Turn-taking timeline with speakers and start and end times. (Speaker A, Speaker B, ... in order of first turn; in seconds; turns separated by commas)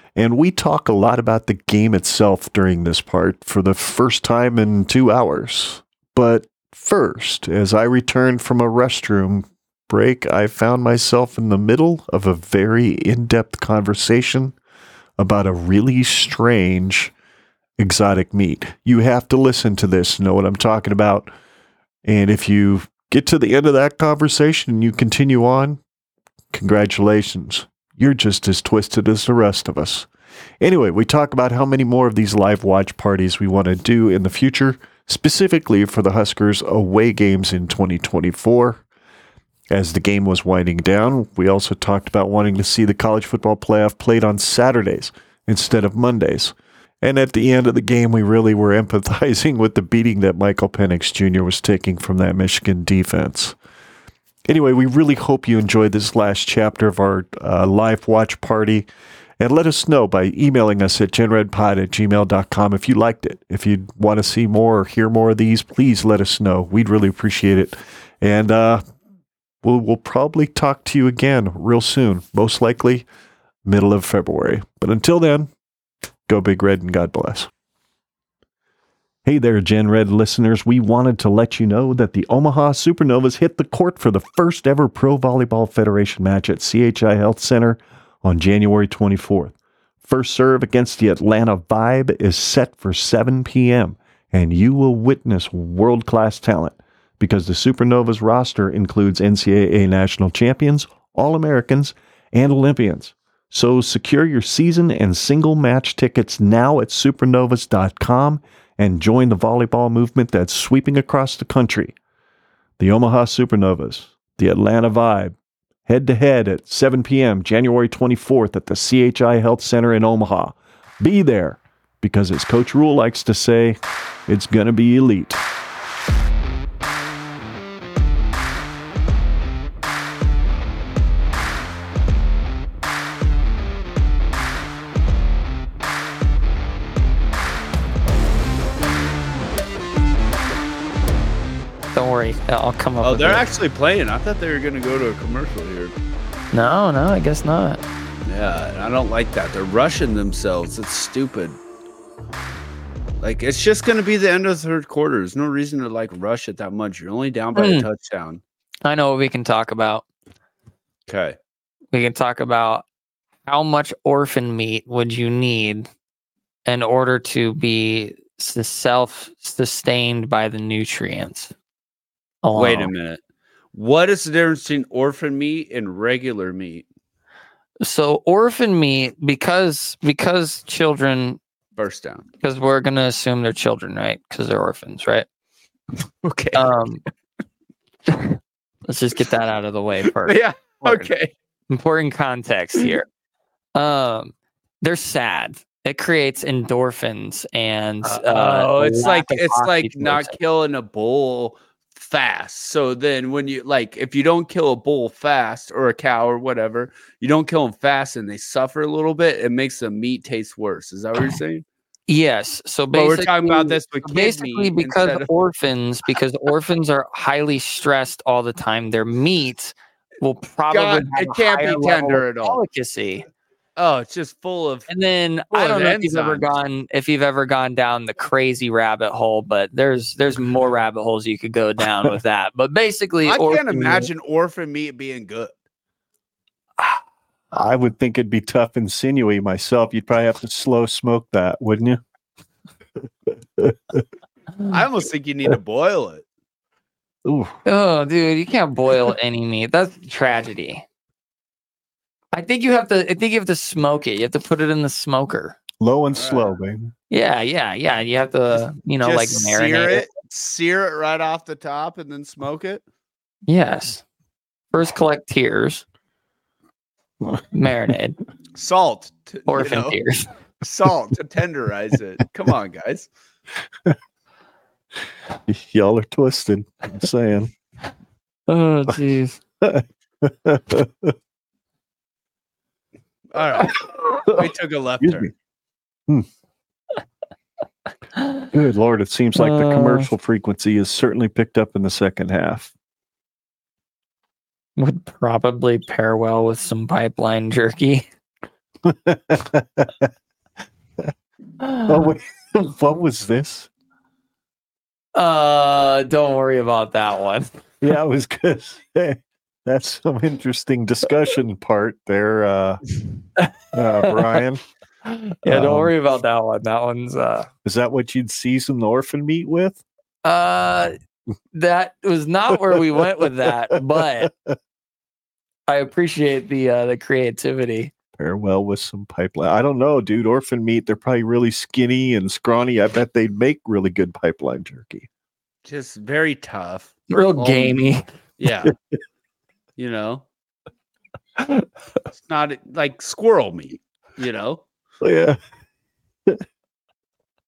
Speaker A: 0.1-14.6, Speaker A: 15.2-17.1, Speaker A: 17.8-21.3, Speaker A: 22.0-25.8, Speaker A: 26.5-30.1, Speaker A: 30.6-38.8, Speaker A: 39.7-53.5, Speaker A: 54.5-58.9, Speaker A: 59.4-68.8, Speaker A: 69.6-73.0, Speaker A: 73.6-75.5, Speaker A: 76.3-77.5, Speaker A: 79.2-112.0, Speaker A: 112.8-125.4, Speaker B: 141.9-143.4, Speaker C: 143.0-145.9, Speaker B: 146.5-147.8, Speaker C: 148.2-151.6, Speaker C: 153.2-158.4, Speaker B: 157.6-157.9, Speaker B: 158.8-160.0, Speaker C: 161.1-161.4, Speaker B: 161.9-162.8, Speaker B: 163.4-165.9, Speaker B: 166.7-171.5, Speaker B: 172.4-172.9, Speaker C: 172.5-173.2, Speaker C: 173.7-176.8, Speaker B: 177.8-181.4, Speaker C: 181.8-182.2, Speaker B: 182.4-185.2, Speaker C: 186.2-186.7, Speaker B: 186.5-187.1, Speaker B: 188.1-191.1, Speaker C: 190.1-191.3, Speaker B: 191.7-193.1, Speaker B: 193.7-200.3, Speaker C: 198.0-211.6, Speaker B: 212.1-223.2, Speaker C: 212.9-215.3, Speaker C: 220.7-222.6, Speaker C: 223.8-224.9, Speaker B: 224.9-234.1, Speaker C: 225.5-226.5, Speaker C: 233.2-235.5, Speaker A: 237.5-242.0, Speaker A: 243.6-244.0, Speaker C: 244.7-246.2, Speaker A: 247.2-247.6, Speaker B: 247.7-250.8, Speaker B: 252.3-255.6, Speaker A: 255.8-256.9, Speaker C: 256.1-256.6, Speaker B: 257.1-260.1, Speaker C: 259.0-262.8, Speaker B: 263.4-264.0, Speaker B: 264.7-265.8, Speaker B: 267.5-268.2, Speaker C: 268.5-270.0, Speaker B: 269.5-270.3, Speaker C: 270.6-273.1, Speaker A: 275.5-277.5, Speaker B: 278.5-279.4, Speaker A: 279.6-281.1, Speaker C: 283.3-285.3, Speaker A: 283.6-284.4, Speaker A: 285.0-285.3, Speaker A: 288.5-292.7, Speaker B: 289.4-290.1, Speaker B: 294.8-298.1, Speaker A: 298.8-300.1, Speaker A: 301.7-303.7, Speaker B: 305.1-307.5, Speaker A: 307.8-312.8, Speaker A: 313.7-314.6, Speaker B: 314.0-314.4, Speaker B: 315.1-317.5, Speaker A: 315.4-315.9, Speaker A: 317.6-319.8, Speaker B: 320.2-320.9, Speaker B: 321.5-324.3, Speaker A: 322.7-324.5, Speaker B: 325.7-327.9, Speaker A: 328.2-335.1, Speaker C: 335.6-338.7, Speaker B: 337.1-338.0, Speaker C: 339.8-340.2, Speaker C: 342.2-344.6, Speaker A: 345.0-345.4